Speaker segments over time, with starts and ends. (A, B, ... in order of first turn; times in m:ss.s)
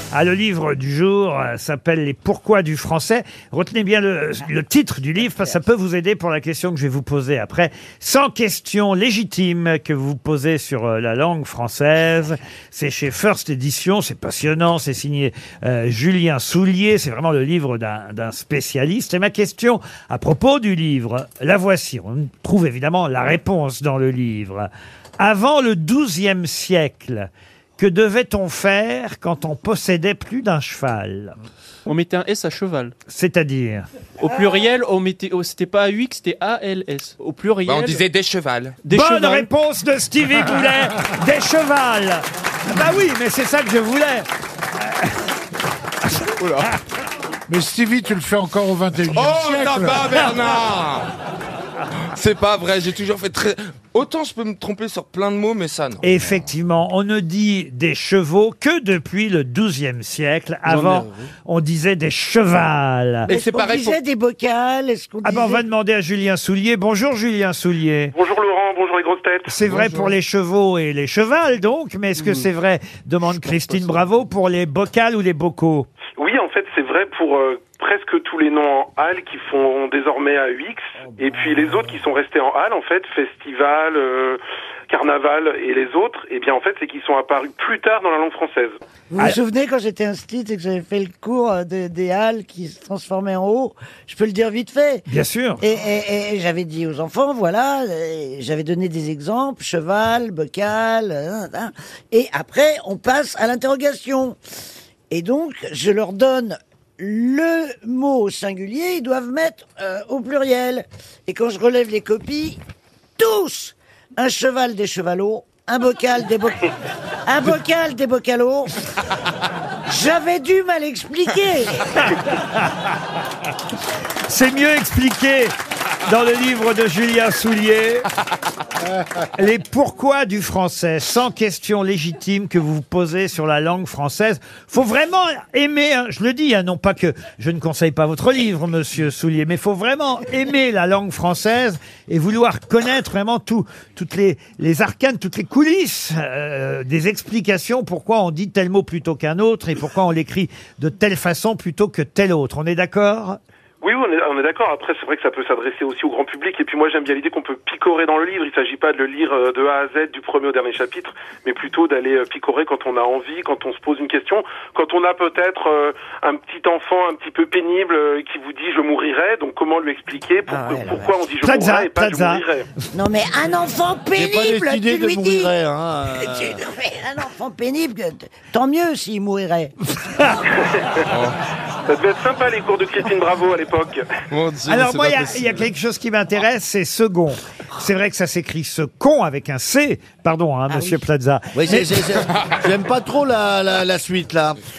0:00.1-0:31.4 A
0:31.8-0:32.9 B
0:33.1-0:33.9 A
0:34.2-0:38.0 B
0:37.6-0:38.8 C
0:38.8-0:39.5 B
0:38.9-0:45.1 A
0:46.4-0:46.7 C
0:47.5-0:50.0 D
0:49.1-0:51.1 C
0:52.0-0:56.0 C
0:56.0-1:03.3 A
1:00.7-1:01.2 C
1:03.3-1:05.6 E
1:03.3-1:04.0 C
1:05.2-1:08.1 A
1:08.2-1:09.5 F
1:09.5-1:15.9 A
1:09.7-1:10.1 C
1:16.2-1:28.8 F
1:29.1-1:35.1 E
1:35.1-1:35.6 A
1:35.6-1:44.4 E
1:45.1-1:52.6 E
1:53.2-1:56.7 E
1:57.2-1:58.7 E
1:59.9-2:01.9 E
2:02.2-2:02.7 A
2:04.3-2:05.5 A
2:06.0-2:08.1 A
2:09.4-2:33.4 A
2:33.8-2:52.7 F
2:50.5-2:51.1 E
2:51.4-2:52.4 A
2:52.9-2:55.5 E
2:54.2-2:56.6 G
2:56.1-2:59.8 E
2:59.9-3:00.5 A
3:00.6-3:01.0 F
3:01.0-3:01.4 C
3:01.9-3:04.1 F
3:04.3-3:05.7 C
3:04.7-3:12.2 A
3:10.7-3:11.0 E
3:11.5-3:14.6 G